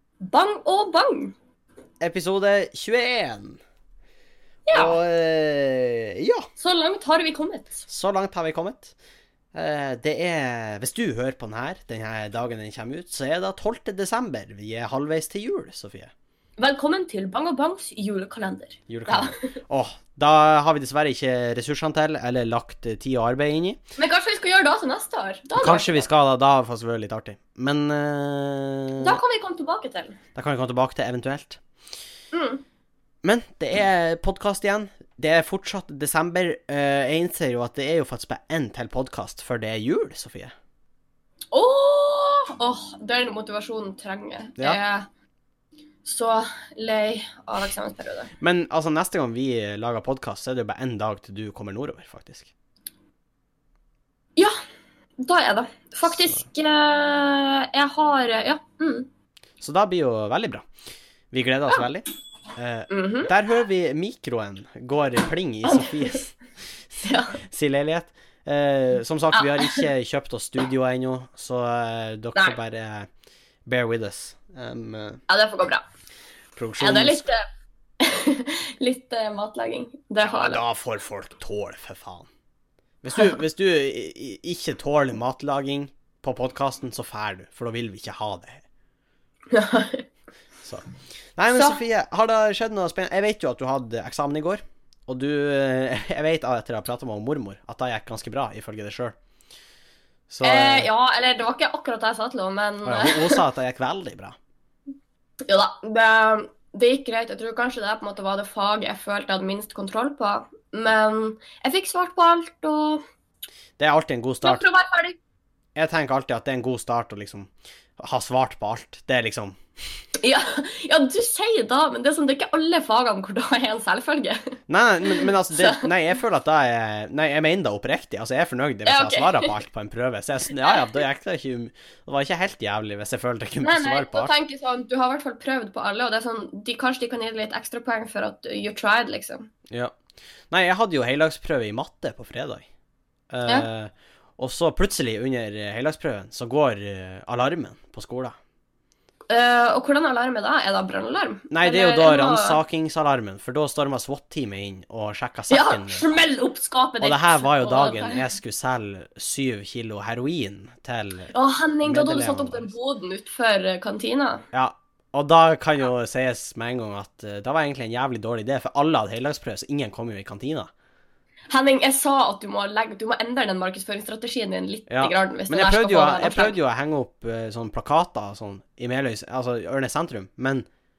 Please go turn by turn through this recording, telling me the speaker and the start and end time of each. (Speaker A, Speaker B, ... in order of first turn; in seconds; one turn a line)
Speaker A: 0.2-1.3
Speaker B: 2.0-3.6
Speaker A: 4.7-5.0
Speaker B: 4.7-6.5
Speaker A: 6.6-7.8
Speaker B: 7.9-8.9
Speaker B: 9.5-16.1
Speaker A: 16.6-19.4
Speaker B: 18.9-23.8
Speaker A: 24.0-26.1
Speaker B: 25.6-29.2
Speaker A: 29.0-30.2
Speaker B: 30.3-31.6
Speaker A: 32.3-32.6
Speaker B: 33.2-40.5
Speaker A: 41.5-45.0
Speaker A: 46.0-48.3
Speaker B: 48.4-52.5
Speaker A: 55.2-59.1
Speaker B: 59.6-60.6
Speaker B: 61.3-66.3
Speaker A: 62.9-63.3
Speaker A: 65.6-66.2
Speaker A: 67.0-67.3
Speaker B: 67.4-73.1
Speaker A: 69.3-69.8
Speaker B: 73.7-75.2
Speaker A: 75.3-75.8
Speaker B: 76.5-77.2
Speaker A: 76.8-77.4
Speaker A: 78.0-80.6
Speaker B: 80.2-82.3
Speaker B: 83.0-88.6
Speaker A: 89.5-90.0
Speaker B: 91.3-99.1
Speaker A: 91.5-91.8
Speaker B: 100.3-100.9
Speaker A: 100.4-103.4
Speaker B: 102.8-104.3
Speaker A: 105.5-113.0
Speaker B: 113.8-114.6
Speaker A: 114.4-115.2
Speaker B: 115.8-119.6
Speaker A: 120.2-124.5
Speaker B: 124.7-134.3
Speaker A: 125.1-125.9
Speaker A: 128.8-129.5
Speaker A: 133.6-139.5
Speaker B: 140.5-142.6
Speaker B: 143.3-148.3
Speaker A: 149.3-152.6
Speaker B: 151.5-156.1
Speaker A: 155.5-158.3
Speaker B: 157.0-161.3
Speaker A: 161.3-164.4
Speaker B: 161.8-162.7
Speaker B: 164.5-170.7
Speaker A: 171.5-176.6
Speaker B: 174.9-180.6